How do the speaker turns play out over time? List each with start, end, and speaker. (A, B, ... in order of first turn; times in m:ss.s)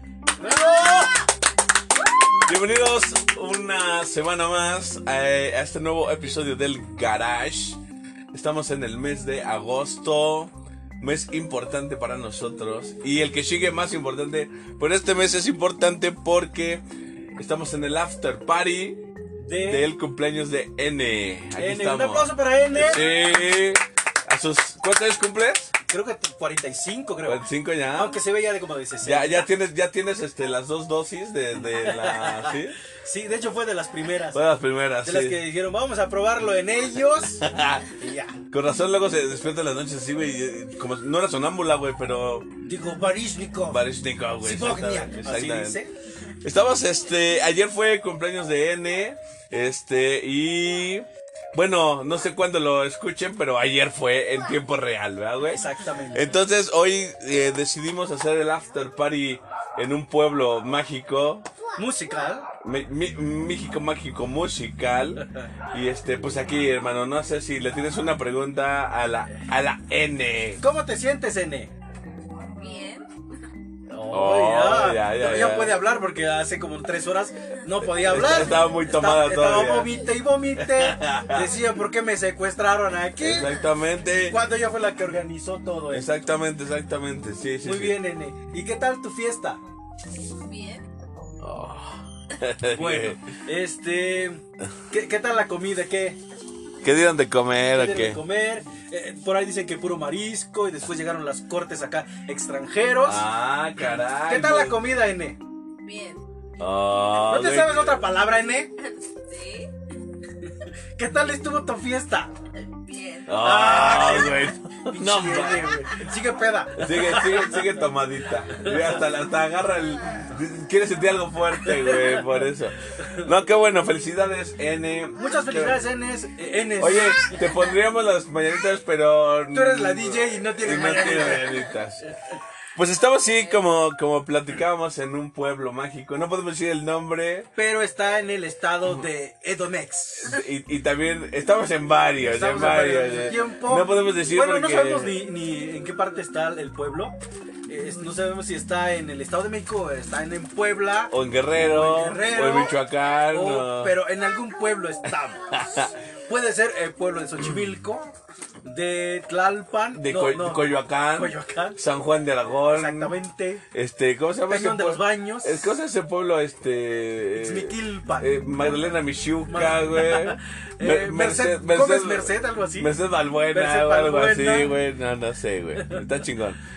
0:00.4-0:01.2 A
0:02.4-0:07.8 B
0:08.3-0:16.8 B
0:17.4-0:19.0 B
0:19.4-0:19.9 A
0:19.6-0:25.7 B
0:21.6-0:23.1 A
0:25.9-0:29.5 A
0:27.2-0:28.2 B
0:29.0-0:32.8 B
0:31.8-0:34.5 A
0:34.3-0:35.4 B
0:35.0-0:38.4 A
0:37.3-0:38.0 B
0:38.5-0:42.5 B
0:42.6-0:43.8 A
0:43.7-0:45.8 B
0:44.4-0:45.9 A
0:46.4-1:01.5 B
0:55.4-0:56.4 A
1:01.8-1:02.5 A
1:02.6-1:10.6 B
1:10.6-1:11.7 A
1:12.6-1:13.1 C
1:13.9-1:23.6 A
1:14.1-1:15.8 B
1:18.0-1:20.0 B
1:20.6-1:21.7 B
1:23.2-1:24.4 B
1:24.2-1:26.1 A
1:25.9-1:28.0 B
1:27.6-1:29.6 A
1:30.3-1:30.8 C
1:31.4-1:33.2 B
1:32.7-1:36.2 A
1:36.8-1:38.2 B
1:37.7-1:45.4 A
1:43.0-1:44.8 B
1:45.8-1:46.2 C
1:46.6-1:48.1 B
1:47.2-1:48.7 A
1:49.2-1:49.7 C
1:51.0-1:52.3 A
1:52.6-1:53.4 C
1:53.3-1:55.8 B
1:53.4-1:57.8 A
1:56.8-2:05.8 B
1:58.5-1:59.0 A
2:01.6-2:02.4 A
2:05.2-2:07.3 A
2:06.8-2:12.0 B
2:09.5-2:11.6 A
2:12.7-2:17.5 B
2:17.5-2:20.4 A
2:20.2-2:25.2 B
2:22.2-2:27.1 A
2:27.7-2:32.8 A
2:31.1-2:34.0 B
2:33.3-2:35.7 A
2:35.5-2:35.9 B
2:36.3-2:41.8 A
2:39.9-2:43.2 B
2:42.7-2:43.6 A
2:43.7-2:56.6 B
2:44.5-2:45.7 A
2:47.4-2:48.8 A
2:49.5-2:52.9 A
2:53.5-2:54.8 A